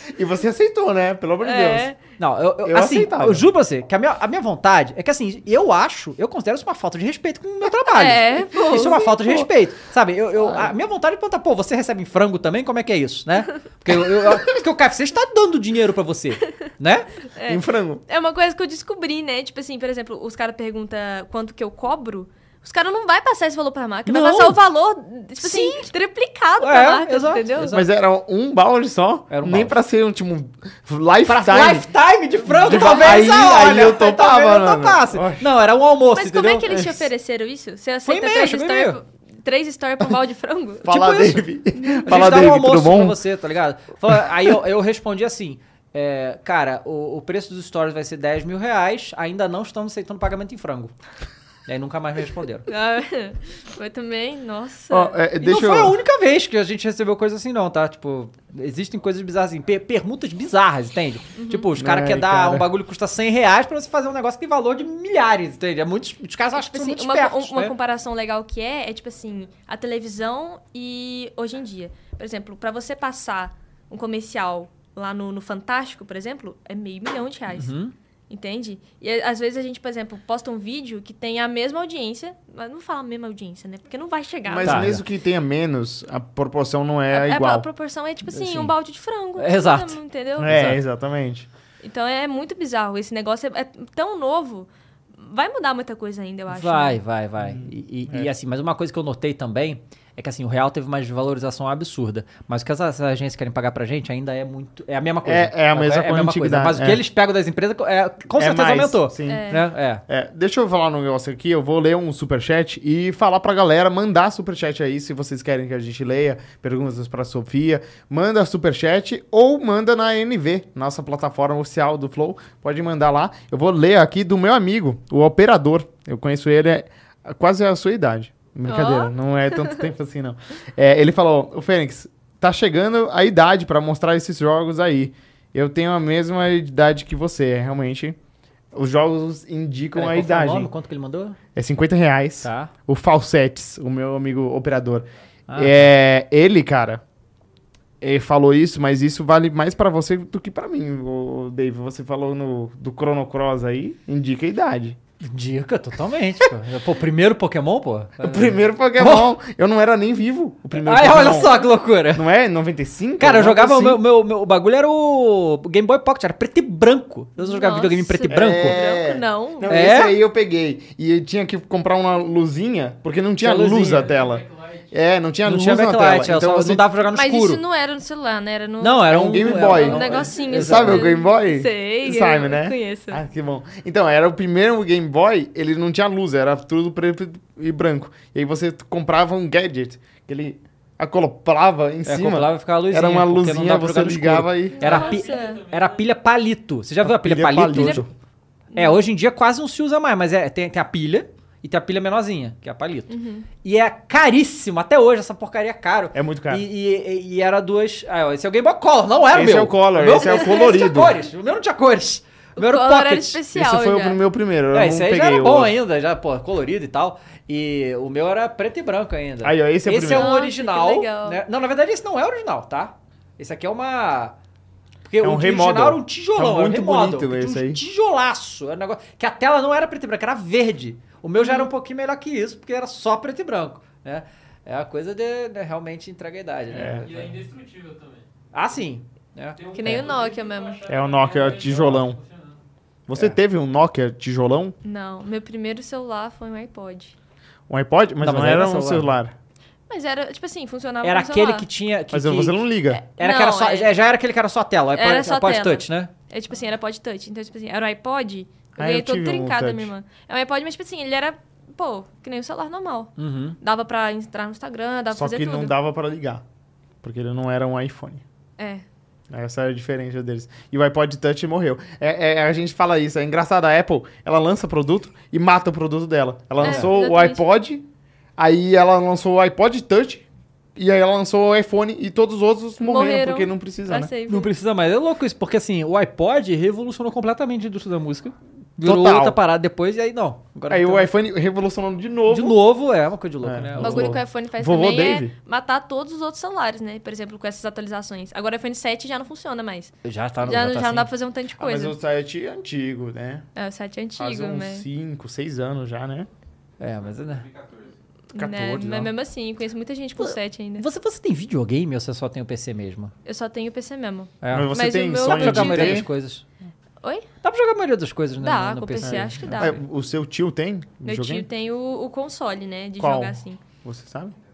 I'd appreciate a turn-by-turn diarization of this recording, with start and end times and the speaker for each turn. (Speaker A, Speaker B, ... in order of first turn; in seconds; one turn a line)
Speaker A: 0.1-1.9
Speaker B: 1.4-2.0
Speaker C: 2.2-17.1
Speaker A: 2.6-3.5
Speaker B: 7.9-9.1
Speaker A: 8.7-9.5
Speaker A: 10.4-10.7
Speaker B: 17.3-27.8
Speaker A: 17.4-18.0
Speaker C: 24.1-24.6
Speaker C: 25.4-25.9
Speaker C: 26.6-27.9
Speaker A: 27.6-31.9
Speaker C: 29.3-29.8
Speaker C: 31.3-36.7
Speaker A: 32.4-35.5
Speaker B: 36.1-42.3
Speaker A: 36.7-37.0
Speaker C: 38.0-39.0
Speaker A: 40.8-43.2
Speaker C: 42.1-50.9
Speaker C: 51.7-52.7
Speaker B: 52.7-55.2
Speaker A: 54.9-56.0
Speaker C: 55.4-67.7
Speaker B: 61.4-61.7
Speaker A: 61.8-62.7
Speaker B: 66.5-77.7
Speaker C: 77.5-77.9
Speaker B: 78.3-85.0
Speaker A: 84.5-87.7
Speaker C: 84.6-85.0
Speaker B: 87.1-90.5
Speaker C: 88.3-88.7
Speaker C: 89.4-90.8
Speaker A: 90.4-91.5
Speaker B: 91.8-97.0
Speaker C: 96.5-110.0
Speaker A: 97.4-98.3
Speaker A: 105.2-107.0
Speaker A: 108.3-109.5
Speaker B: 109.3-109.7
Speaker A: 110.1-138.2
Speaker B: 128.7-129.9
Speaker A: 138.7-140.7
Speaker C: 139.9-141.4
Speaker A: 141.6-147.0
Speaker C: 142.4-142.7
Speaker C: 145.5-145.8
Speaker A: 148.0-155.0
Speaker C: 155.2-159.3
Speaker A: 158.2-161.6
Speaker C: 160.8-162.3
Speaker A: 162.1-164.0
Speaker C: 163.2-168.8
Speaker B: 167.4-169.9
Speaker A: 168.3-176.8
Speaker C: 169.7-170.2
Speaker C: 173.4-174.1
Speaker D: 173.8-174.9
Speaker C: 175.4-177.6
Speaker B: 177.1-183.2
Speaker C: 178.8-181.1
Speaker A: 179.1-195.0
Speaker C: 192.1-198.1
Speaker B: 194.7-195.6
Speaker D: 194.8-196.1
Speaker A: 197.0-198.1
Speaker B: 197.7-198.1
Speaker B: 198.7-199.0
Speaker C: 198.8-213.4
Speaker B: 203.1-203.5
Speaker A: 206.1-206.7
Speaker A: 209.3-211.2
Speaker B: 210.2-210.8
Speaker B: 212.6-214.2
Speaker A: 213.5-215.8
Speaker C: 214.7-224.4
Speaker A: 219.4-220.3
Speaker B: 220.1-221.4
Speaker C: 225.1-237.2
Speaker A: 225.2-227.8
Speaker B: 231.4-231.7
Speaker A: 236.7-237.3
Speaker D: 237.0-238.3
Speaker C: 238.5-240.0
Speaker D: 239.6-242.6
Speaker B: 239.7-240.8
Speaker A: 240.9-242.2
Speaker A: 243.1-244.8
Speaker B: 244.8-247.2
Speaker A: 247.7-249.3
Speaker C: 248.2-249.1
Speaker B: 249.9-251.7
Speaker C: 251.0-252.6
Speaker A: 252.1-253.0
Speaker B: 252.9-253.9
Speaker C: 253.2-256.1
Speaker B: 254.9-265.7
Speaker A: 258.8-259.9
Speaker C: 263.2-263.6
Speaker A: 265.1-266.4
Speaker A: 267.0-268.2
Speaker B: 268.6-268.9
Speaker A: 269.3-284.1
Speaker B: 276.6-277.4
Speaker C: 276.6-276.9
Speaker B: 282.8-284.5
Speaker C: 284.3-291.1
Speaker A: 288.8-289.4
Speaker A: 290.7-292.6
Speaker C: 292.3-294.2
Speaker A: 293.4-295.3
Speaker B: 293.8-301.9
Speaker C: 300.0-301.1
Speaker A: 301.6-303.4
Speaker B: 303.6-304.9
Speaker A: 304.2-306.3
Speaker C: 306.8-307.5
Speaker B: 308.3-310.9
Speaker A: 308.4-309.1
Speaker C: 310.2-313.1
Speaker B: 313.2-316.1
Speaker C: 314.4-316.4
Speaker A: 314.5-316.1
Speaker C: 317.4-319.8
Speaker B: 318.4-319.8
Speaker A: 319.0-321.5
Speaker B: 321.0-323.6
Speaker A: 323.0-324.4